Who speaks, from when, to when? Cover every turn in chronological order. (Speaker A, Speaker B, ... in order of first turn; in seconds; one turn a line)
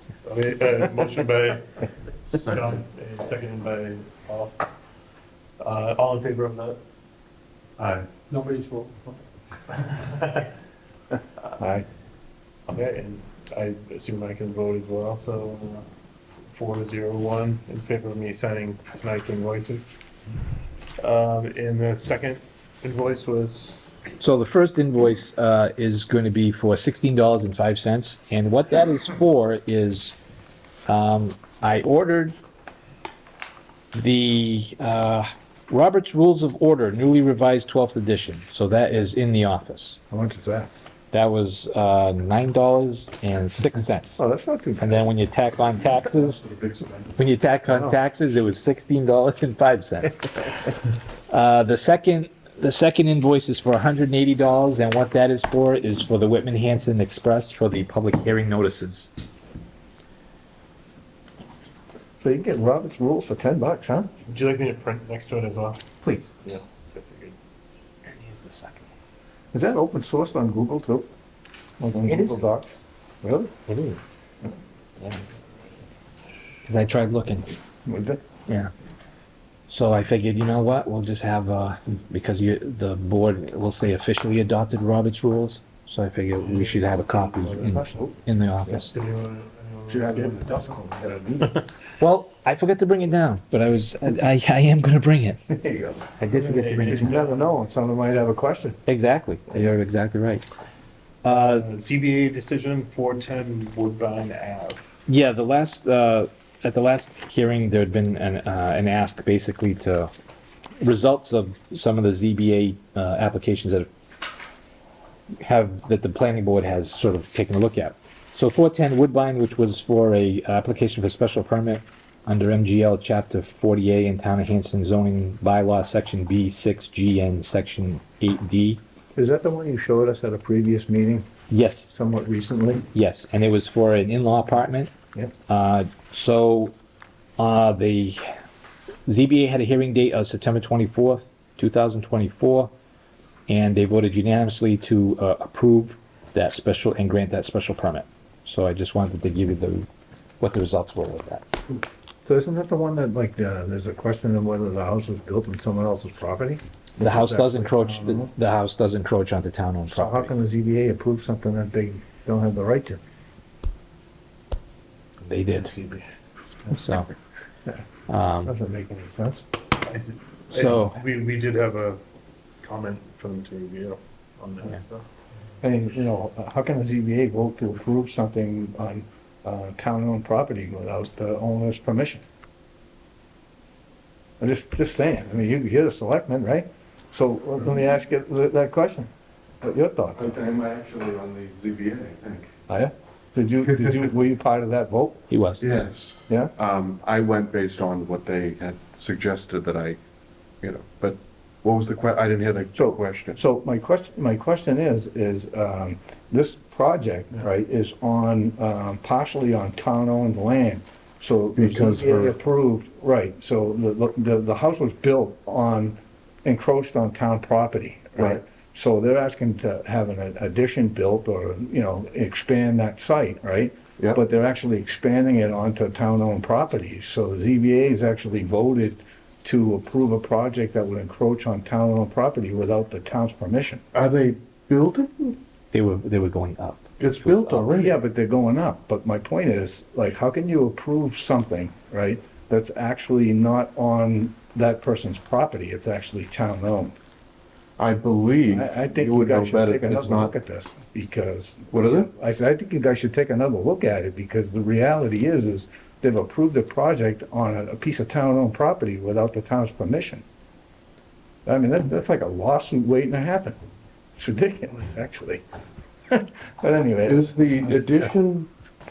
Speaker A: 0.2-1.6
Speaker A: 2.3-4.7
Speaker A: 5.6-6.8
Speaker A: 7.8-8.3
Speaker B: 8.3-8.8
Speaker A: 9.7-10.5
Speaker B: 11.6-11.8
Speaker A: 12.7-15.8
Speaker A: 16.5-19.9
Speaker A: 21.0-23.8
Speaker C: 24.2-30.1
Speaker C: 30.9-32.3
Speaker C: 34.0-40.0
Speaker B: 40.1-40.7
Speaker C: 41.1-44.2
Speaker B: 44.2-45.1
Speaker C: 44.8-46.5
Speaker C: 47.2-50.7
Speaker B: 47.7-48.0
Speaker C: 51.3-59.1
Speaker B: 62.2-64.1
Speaker A: 64.3-65.8
Speaker C: 66.0-66.3
Speaker A: 66.4-67.4
Speaker C: 68.1-68.8
Speaker B: 69.5-71.1
Speaker B: 71.8-73.6
Speaker C: 72.1-72.4
Speaker C: 73.7-74.0
Speaker C: 76.7-77.5
Speaker B: 77.8-78.2
Speaker C: 79.7-88.9
Speaker A: 86.4-87.6
Speaker B: 87.4-88.8
Speaker A: 88.8-91.6
Speaker B: 89.9-91.6
Speaker C: 92.0-95.4
Speaker B: 95.5-96.1
Speaker C: 96.2-97.1
Speaker A: 96.3-97.5
Speaker B: 96.8-98.8
Speaker C: 98.9-100.5
Speaker C: 101.2-101.7
Speaker A: 101.2-104.8
Speaker C: 105.1-110.1
Speaker C: 110.8-113.9
Speaker C: 115.4-128.8
Speaker B: 129.2-131.2
Speaker C: 131.5-131.9
Speaker B: 131.9-132.9
Speaker C: 132.9-134.9
Speaker C: 135.5-136.8
Speaker C: 137.4-138.2
Speaker C: 139.1-142.7
Speaker C: 143.5-149.9
Speaker C: 150.4-151.4
Speaker B: 152.2-158.3
Speaker C: 157.0-160.3
Speaker B: 159.9-163.0
Speaker C: 165.2-165.7
Speaker A: 165.6-166.0
Speaker C: 166.7-167.1
Speaker C: 168.1-168.5
Speaker B: 168.4-169.4
Speaker A: 169.8-172.0
Speaker C: 170.5-171.0
Speaker A: 172.6-175.1
Speaker B: 175.6-182.2
Speaker B: 184.4-189.1
Speaker B: 189.6-190.3
Speaker D: 190.2-192.5
Speaker B: 192.7-195.3
Speaker C: 195.3-195.7
Speaker D: 195.6-200.0
Speaker D: 200.6-203.4
Speaker B: 202.8-233.8
Speaker D: 211.6-212.3
Speaker D: 233.9-235.4
Speaker C: 235.7-237.6
Speaker D: 237.0-238.0
Speaker B: 237.7-246.9
Speaker D: 247.8-250.3
Speaker B: 248.5-260.2
Speaker D: 251.7-252.1
Speaker B: 261.4-263.6
Speaker B: 264.2-265.4
Speaker B: 266.1-268.1
Speaker D: 267.1-268.5